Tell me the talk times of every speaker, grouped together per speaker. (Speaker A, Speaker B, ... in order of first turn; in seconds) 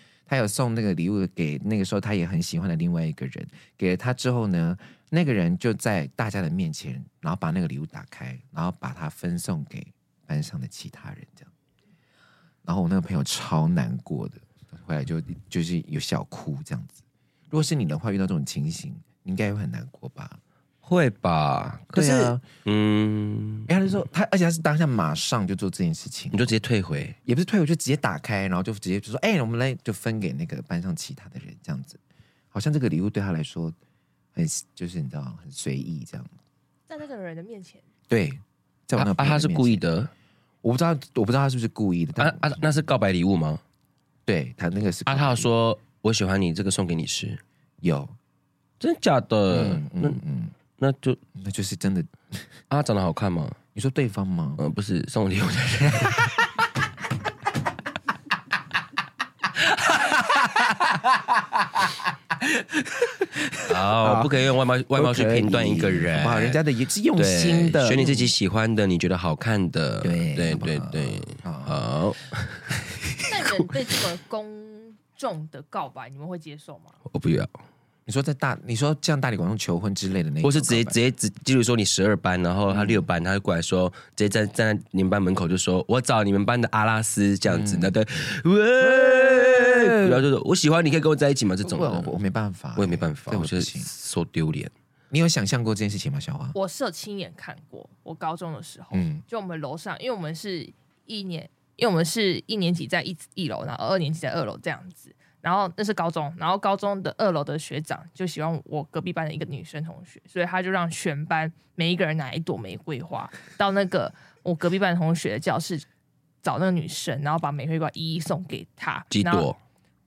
Speaker A: 0.3-11.5, 12.6-17.0, 17.5-20.4, 21.9-22.4, 23.7-26.5, 27.2-32.0, 32.5-33.8, 34.3-36.3, 38.1-39.8, 40.6-42.7, 44.3-45.5, 47.8-48.1, 49.5-50.5, 51.3-52.5, 53.7-54.6, 59.9-64.4, 64.9-68.3, 70.0-71.8, 73.0-73.6, 78.0-81.0, 82.7-83.0, 87.5-88.0, 88.8-90.2, 91.6-93.9, 95.1-96.5, 98.9-99.2
Speaker B: 20.8-23.7, 26.3-27.2, 39.0-40.1, 42.2-43.6, 45.1-47.4, 48.8-50.2, 50.8-51.2, 52.7-53.6, 54.6-56.3, 63.7-66.6, 67.2-72.7, 77.0-77.6, 80.4-92.2, 92.8-94.7, 119.1-119.6
Speaker C: 36.9-37.8, 73.3-77.0, 96.5-115.8, 116.4-119.5